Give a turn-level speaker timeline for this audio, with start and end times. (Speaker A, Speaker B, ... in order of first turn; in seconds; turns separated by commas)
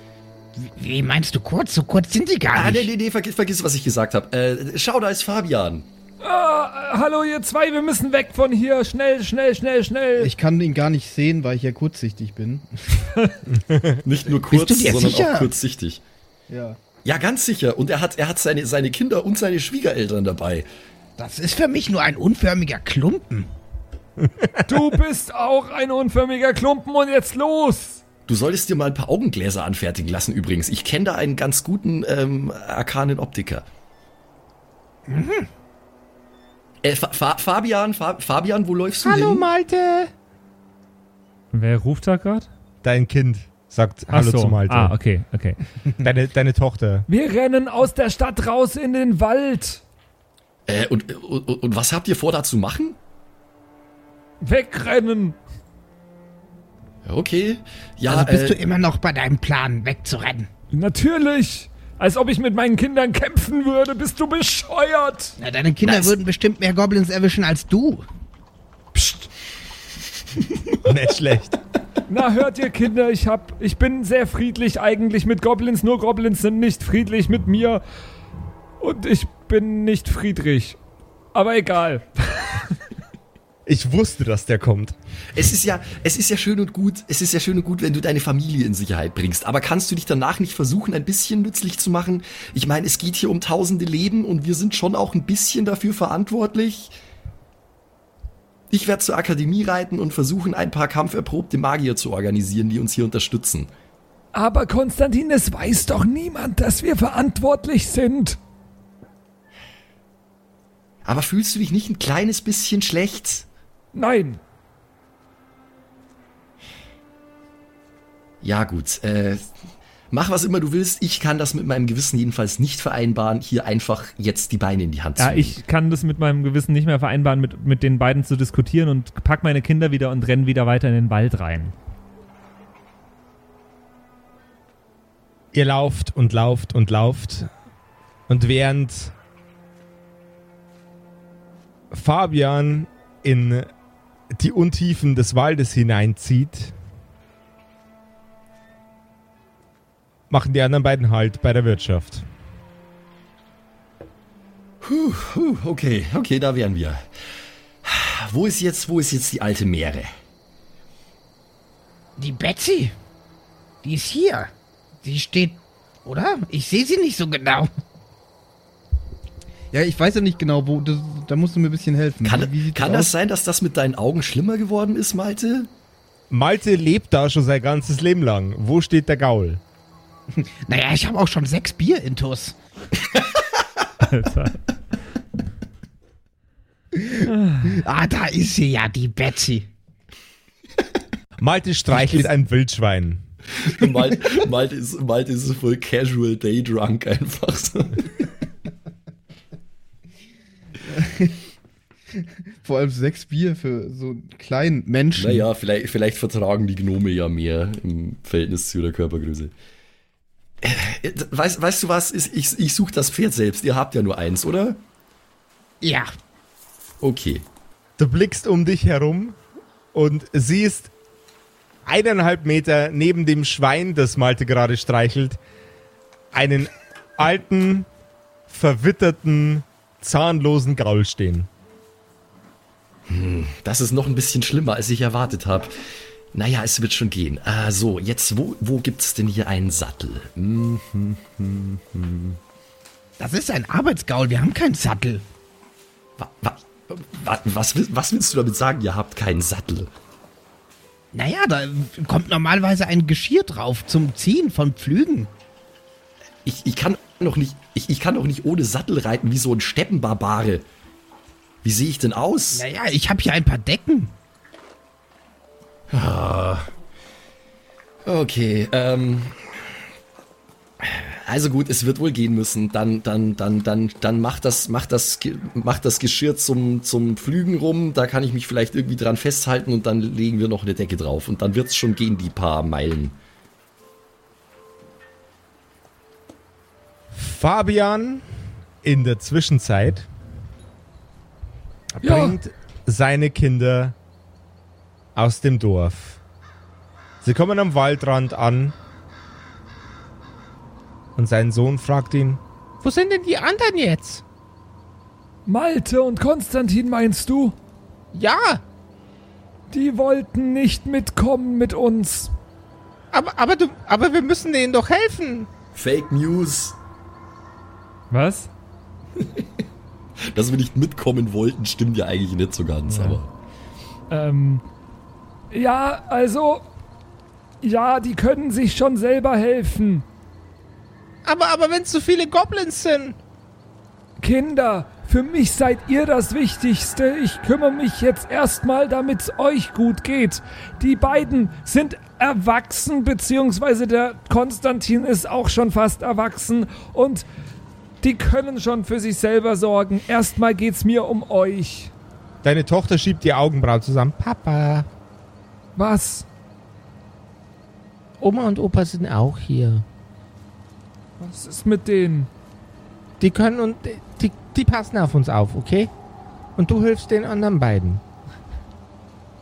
Speaker A: 0.6-2.9, Speaker B: 2.5-5.9, Speaker C: 6.2-10.3, Speaker D: 10.2-13.1, Speaker E: 13.5-14.0, Speaker B: 14.0-16.0, Speaker A: 14.5-15.5, Speaker D: 16.5-16.8, Speaker B: 17.0-20.7, Speaker A: 21.2-23.5, Speaker C: 24.6-28.0, Speaker B: 28.3-33.6, Speaker A: 35.1-35.5, Speaker B: 36.8-39.5, Speaker E: 39.0-40.1, Speaker F: 41.5-42.5, Speaker E: 42.8-45.0, Speaker F: 44.1-45.6, Speaker E: 46.0-47.1, Speaker C: 47.1-49.8, Speaker B: 50.7-53.0, Speaker C: 54.4-55.4, Speaker B: 57.0-58.6, Speaker A: 58.1-60.5, Speaker C: 60.7-65.3, Speaker A: 65.4-68.0, Speaker B: 65.8-66.2, Speaker C: 68.9-69.2, Speaker E: 70.8-71.6, Speaker C: 72.1-77.8, Speaker C: 78.8-80.8, Speaker C: 81.3-82.7, Speaker E: 83.7-84.9, Speaker B: 85.3-96.9, Speaker B: 98.7-103.7, Speaker C: 104.3-108.4, Speaker B: 111.0-113.5, Speaker C: 113.9-114.4, Speaker B: 118.4-119.5, Speaker B: 120.1-125.6, Speaker F: 125.2-131.7, Speaker E: 135.5-137.5, Speaker E: 138.3-139.1, Speaker E: 141.9-143.7, Speaker E: 144.3-146.7, Speaker E: 150.3-152.2, Speaker B: 154.8-157.1, Speaker B: 157.8-160.1, Speaker A: 162.2-162.9, Speaker A: 163.8-164.5, Speaker A: 165.0-167.7, Speaker D: 169.7-173.1, Speaker B: 172.2-175.7, Speaker E: 176.3-179.6, Speaker A: 180.7-182.6, Speaker F: 184.0-184.6, Speaker A: 187.0-189.7, Speaker F: 187.4-187.8, Speaker E: 191.4-193.2, Speaker B: 193.5-198.2, Speaker D: 200.9-201.3, Speaker D: 202.6-205.5, Speaker B: 205.1-209.5, Speaker B: 210.6-214.8, Speaker A: 215.8-216.1, Speaker B: 217.0-217.4, Speaker E: 218.0-219.4, Speaker E: 219.9-220.9, Speaker E: 221.8-225.4, Speaker E: 226.3-227.9, Speaker E: 228.5-231.5, Speaker B: 233.1-235.7, Speaker B: 236.3-242.4, Speaker A: 243.2-245.2, Speaker B: 246.2-249.9, Speaker A: 251.1-255.3, Speaker B: 256.4-260.6, Speaker B: 261.6-262.6, Speaker A: 262.5-264.1, Speaker B: 265.9-266.7, Speaker B: 268.0-269.8, Speaker B: 270.8-283.1, Speaker E: 287.1-288.2, Speaker E: 288.8-290.1, Speaker E: 292.0-293.9, Speaker C: 292.0-292.4, Speaker E: 295.1-296.2, Speaker E: 297.2-298.7, Speaker E: 301.2-304.2, Speaker C: 305.4-307.5, Speaker E: 308.1-308.6, Speaker C: 309.7-312.3, Speaker E: 313.1-315.5, Speaker B: 315.7-316.8, Speaker F: 318.1-318.5, Speaker B: 320.2-323.3, Speaker F: 322.9-323.2, Speaker C: 324.1-324.6, Speaker C: 325.5-326.7, Speaker C: 327.6-330.0, Speaker E: 331.2-333.2, Speaker C: 334.2-347.2, Speaker C: 348.0-351.9, Speaker E: 352.4-354.9, Speaker C: 355.8-356.2, Speaker E: 358.2-359.8, Speaker C: 361.2-362.3, Speaker E: 363.2-365.9, Speaker E: 366.6-368.0